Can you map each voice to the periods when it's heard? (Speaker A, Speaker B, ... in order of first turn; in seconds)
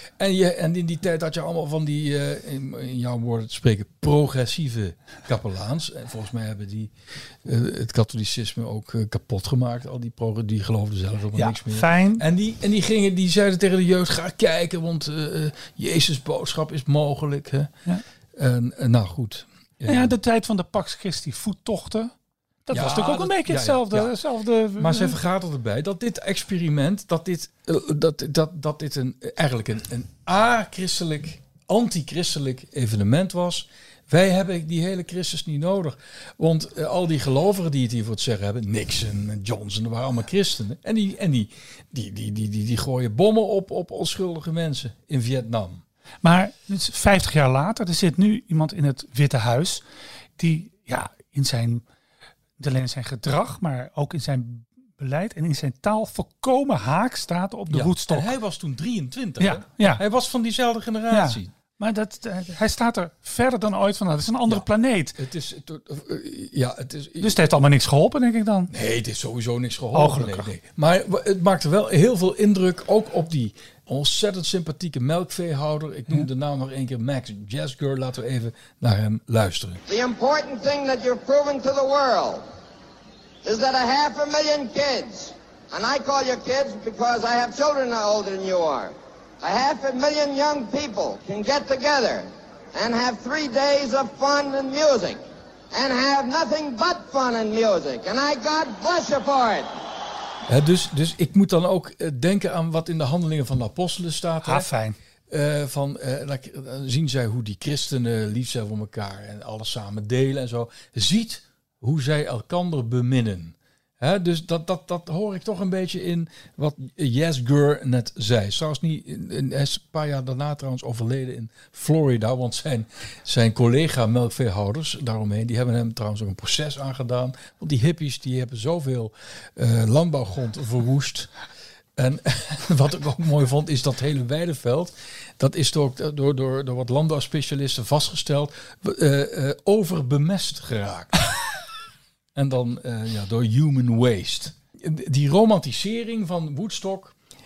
Speaker A: 0.2-6.9, 7.4-17.7, 18.3-20.1, 22.7-24.1, 24.8-45.8, 57.7-61.5, 64.5-67.4, 68.7-79.8, 100.5-104.7, 105.3-131.3, 131.9-141.2, 142.3-147.2
Speaker B: 11.3-12.2, 19.9-22.1, 22.6-25.2, 46.2-49.8, 50.4-51.8, 52.6-58.3, 59.4-60.0, 61.1-65.2, 67.2-68.7, 69.9-70.5, 104.4-105.0
Speaker C: 79.9-82.4, 83.4-95.2, 95.7-99.7